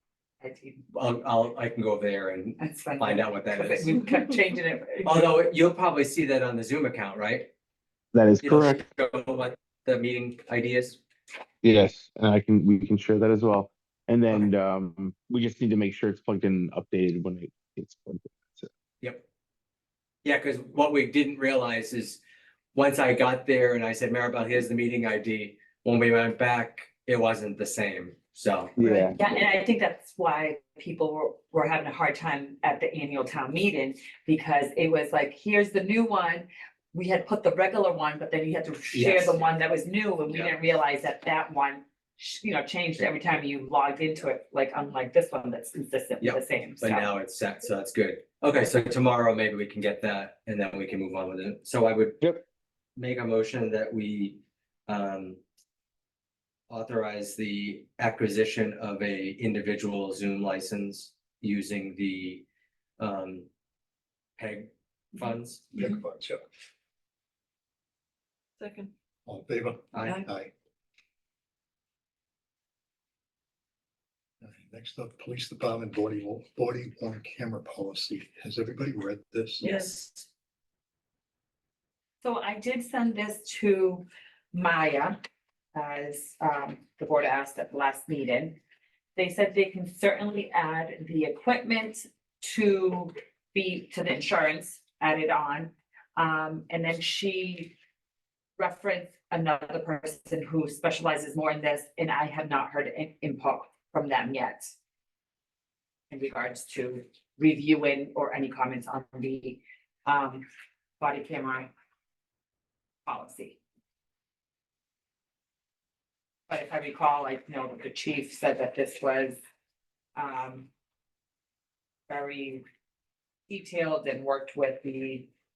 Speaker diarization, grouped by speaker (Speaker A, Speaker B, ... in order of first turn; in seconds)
Speaker A: 0.4-0.8, 2.6-5.4, 28.8-47.1, 82.2-85.2, 85.7-88.6, 89.2-97.7, 98.6-104.7, 106.1-110.4, 111.0-111.7, 113.1-113.6, 116.5-119.4, 120.2-120.7, 122.1-122.6, 123.5-125.3
Speaker B: 0.9-4.2, 5.0-7.5, 8.4-11.0, 20.2-22.2, 22.7-28.8, 38.9-39.4, 40.3-40.6, 46.2-52.2, 53.0-55.4, 56.7-62.5, 63.0-63.5, 64.4-65.8, 69.9-70.3, 79.6-80.3
Speaker C: 8.1-8.8, 11.6-18.7, 28.8-29.2
Speaker D: 65.8-66.4, 69.3-70.5, 74.4-79.7